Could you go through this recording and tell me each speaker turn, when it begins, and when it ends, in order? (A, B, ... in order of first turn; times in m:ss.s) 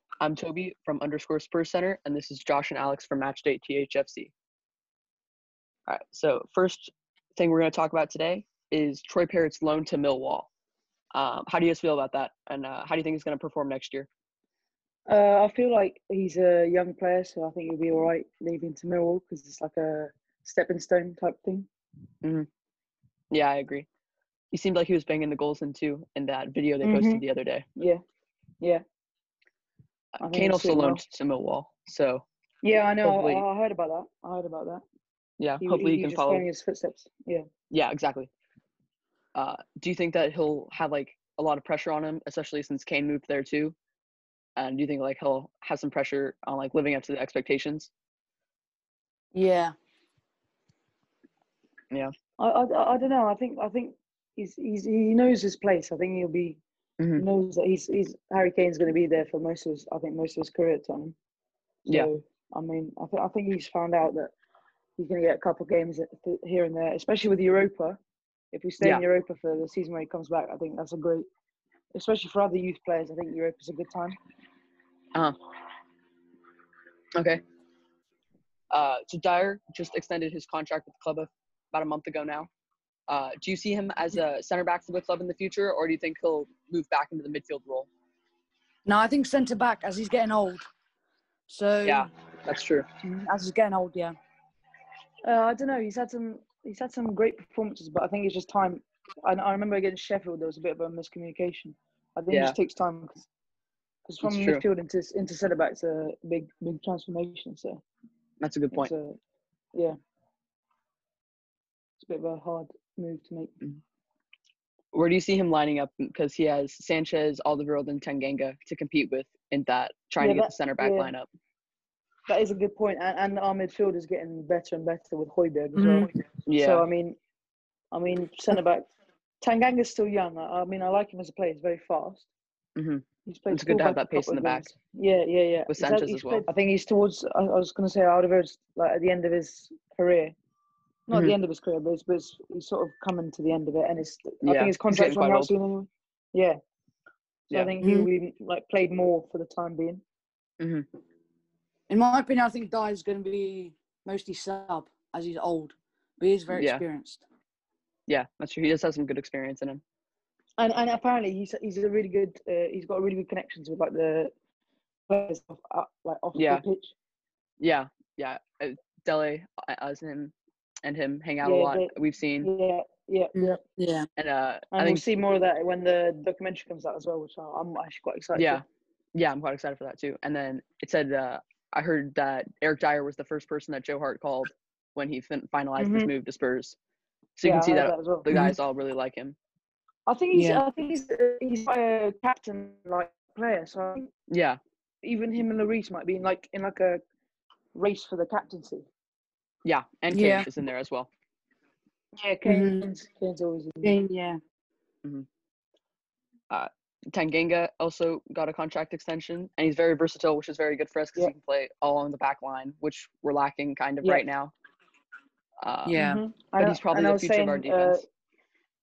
0:00.2-0:04.3 A
0:05.9-0:10.5 A
0:11.1-0:14.1 A
0:15.1-0:21.7 B
0:22.2-0:22.5 A
0:23.3-0:23.9 A
0:24.5-0:27.6 A
0:26.8-0:27.2 B
0:27.8-0:28.0 B
0:30.1-0:32.2 A
0:30.2-0:31.0 B
0:32.6-0:34.8 B
0:33.0-0:33.4 A
0:35.4-0:36.4 A
0:35.6-0:37.5 B
0:37.7-0:38.3 A
0:39.3-0:43.7 A
0:44.6-0:47.9 A
0:49.3-0:49.7 C
0:52.4-0:56.6 B
0:57.0-0:57.2 A
0:57.2-1:01.1 B
1:01.9-1:04.3 B
1:05.0-1:08.0 B
1:08.5-1:11.3 B
1:11.9-1:14.2 B
1:17.2-1:17.4 A
1:18.7-1:22.5 A
1:23.1-1:27.9 A
1:28.8-1:30.7 C
1:31.5-1:32.1 C
1:31.8-1:32.9 A
1:33.0-1:34.2 C
1:35.2-1:43.2 B
1:42.3-1:42.6 A
1:44.0-1:47.8 B
1:44.2-1:44.6 A
1:48.4-1:48.9 A
1:48.7-1:49.2 B
1:52.0-1:53.5 B
1:54.9-2:01.3 A
2:00.2-2:01.1 B
2:02.3-2:07.2 B
2:05.7-2:06.1 C
2:06.4-2:06.8 A
2:07.9-2:08.9 B
2:09.4-2:12.3 B
2:12.8-2:14.7 A
2:13.2-2:20.3 B
2:15.7-2:16.4 A
2:21.1-2:26.6 B
2:24.4-2:25.5 A
2:27.5-2:30.0 B
2:27.8-2:28.1 C
2:30.6-2:30.8 A
2:31.9-2:37.2 C
2:36.5-2:36.8 A
2:38.1-2:39.8 A
2:40.6-2:44.3 B
2:45.1-2:46.9 B
2:46.3-2:46.6 A
2:47.6-2:52.5 A
2:51.4-2:53.6 B
2:53.3-2:54.1 C
2:54.2-2:55.0 A
2:54.7-2:58.6 B
2:58.3-2:58.6 A
2:59.1-3:06.8 A
3:05.8-3:06.1 B
3:07.4-3:09.4 A
3:07.4-3:08.2 B
3:08.3-3:08.5 C
3:10.0-3:14.1 B
3:10.3-3:10.6 C
3:14.3-3:14.6 A
3:15.0-3:17.0 B
3:17.7-3:18.8 B
3:19.6-3:21.1 A
3:20.1-3:20.5 C
3:22.1-3:23.9 B
3:22.4-3:22.8 C
3:23.8-3:24.4 C
3:26.5-3:34.5 A
3:35.6-3:36.0 A
3:35.8-3:36.2 C
3:35.9-3:38.0 B
3:36.6-3:38.0 A